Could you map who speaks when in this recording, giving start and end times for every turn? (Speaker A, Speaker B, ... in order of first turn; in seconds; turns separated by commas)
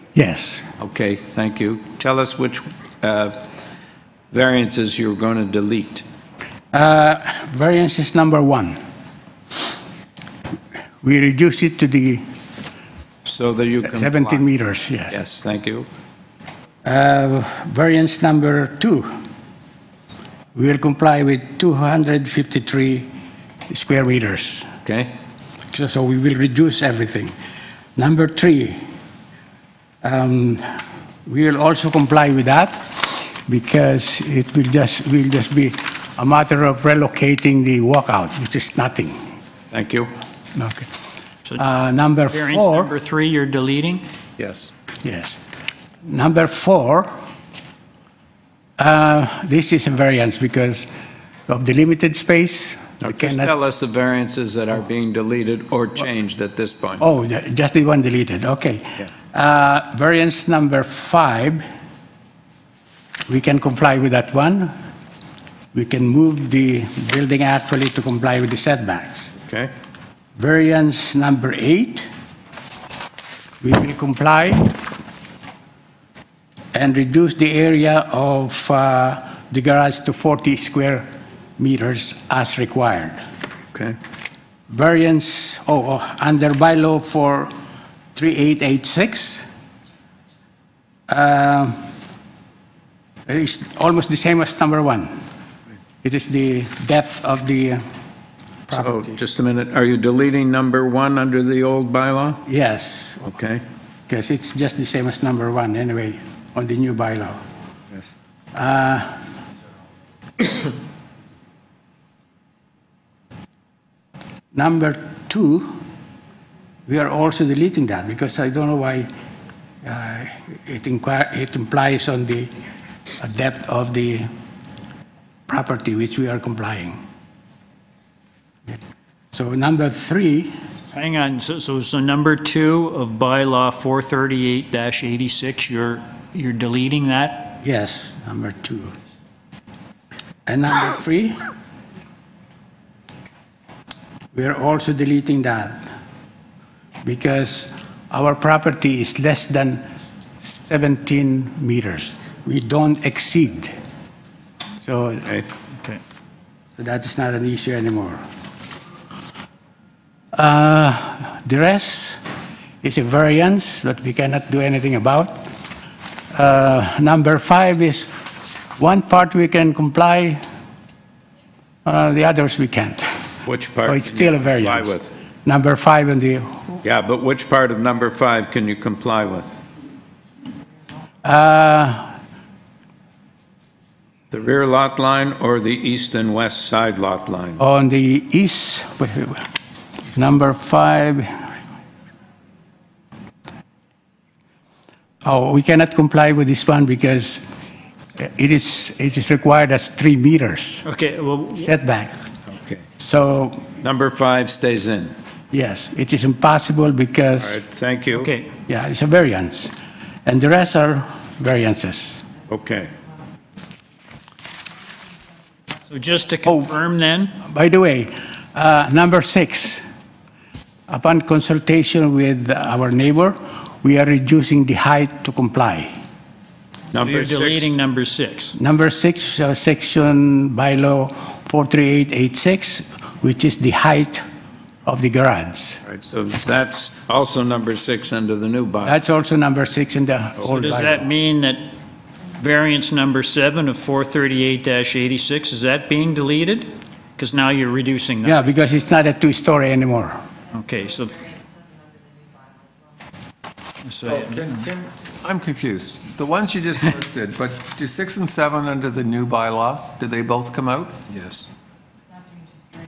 Speaker A: 0.1-0.7, Speaker B: 0.8-3.4, Speaker B: 4.3-6.0, Speaker A: 6.7-8.8, Speaker A: 11.0-12.2, Speaker B: 13.2-14.4, Speaker A: 13.8-15.2, Speaker B: 15.1-15.9, Speaker A: 16.8-19.1, Speaker A: 20.5-23.1, Speaker A: 23.7-24.7, Speaker B: 24.8-25.1, Speaker A: 25.7-27.3, Speaker A: 28.0-28.8, Speaker A: 30.0-39.2, Speaker B: 39.7-40.1, Speaker A: 40.5-40.9, Speaker A: 41.6-42.9, Speaker C: 42.3-44.0, Speaker B: 44.4-44.7, Speaker A: 45.0-45.4, Speaker A: 46.0-47.1, Speaker A: 48.8-50.9, Speaker A: 51.5-53.5, Speaker B: 53.0-57.0, Speaker A: 57.0-61.6, Speaker A: 63.3-64.7, Speaker A: 65.7-69.3, Speaker A: 70.4-72.1, Speaker A: 73.6-74.8, Speaker A: 76.7-81.0, Speaker A: 81.6-83.2, Speaker A: 84.7-87.5, Speaker A: 88.1-89.4, Speaker A: 91.1-91.8, Speaker A: 93.3-95.1, Speaker A: 96.0-97.8, Speaker A: 98.7-99.1, Speaker B: 98.7-102.4, Speaker A: 102.4-103.3, Speaker B: 103.3-103.6, Speaker A: 104.1-107.4, Speaker A: 108.5-109.2, Speaker A: 114.5-115.8, Speaker A: 116.9-119.1, Speaker A: 119.8-122.6, Speaker A: 123.2-124.3, Speaker A: 125.5-127.0, Speaker A: 129.3-130.5, Speaker C: 130.9-137.6, Speaker A: 137.6-138.9, Speaker A: 140.4-141.4, Speaker A: 144.3-145.9, Speaker A: 147.0-149.8, Speaker A: 150.4-153.7, Speaker A: 154.8-155.4, Speaker A: 156.8-158.2, Speaker A: 160.3-162.2, Speaker A: 162.8-165.5, Speaker A: 166.3-168.1, Speaker A: 168.8-170.4, Speaker A: 171.8-173.1, Speaker B: 173.4-175.1, Speaker A: 173.8-176.6, Speaker B: 176.8-179.6, Speaker A: 181.2-182.1, Speaker B: 184.3-187.6, Speaker A: 187.6-189.4, Speaker A: 190.1-191.3, Speaker A: 195.2-197.4, Speaker A: 198.2-200.8, Speaker C: 200.8-201.7, Speaker A: 201.5-202.2, Speaker B: 202.5-202.8, Speaker A: 203.0-203.7, Speaker B: 203.8-205.1, Speaker A: 205.5-207.6, Speaker B: 207.4-208.3, Speaker C: 208.1-208.5, Speaker A: 208.7-209.7, Speaker A: 210.2-212.2, Speaker B: 212.5-212.9, Speaker C: 215.9-217.3, Speaker A: 217.4-219.8, Speaker A: 220.9-225.9, Speaker B: 226.9-227.8, Speaker C: 226.9-228.6, Speaker A: 228.6-234.2, Speaker A: 234.8-235.8, Speaker B: 235.8-239.0, Speaker A: 238.8-241.0, Speaker C: 240.4-241.7, Speaker C: 242.4-248.4, Speaker A: 248.2-250.2, Speaker C: 250.5-251.4, Speaker C: 253.8-254.6, Speaker D: 254.0-261.0, Speaker B: 261.1-261.5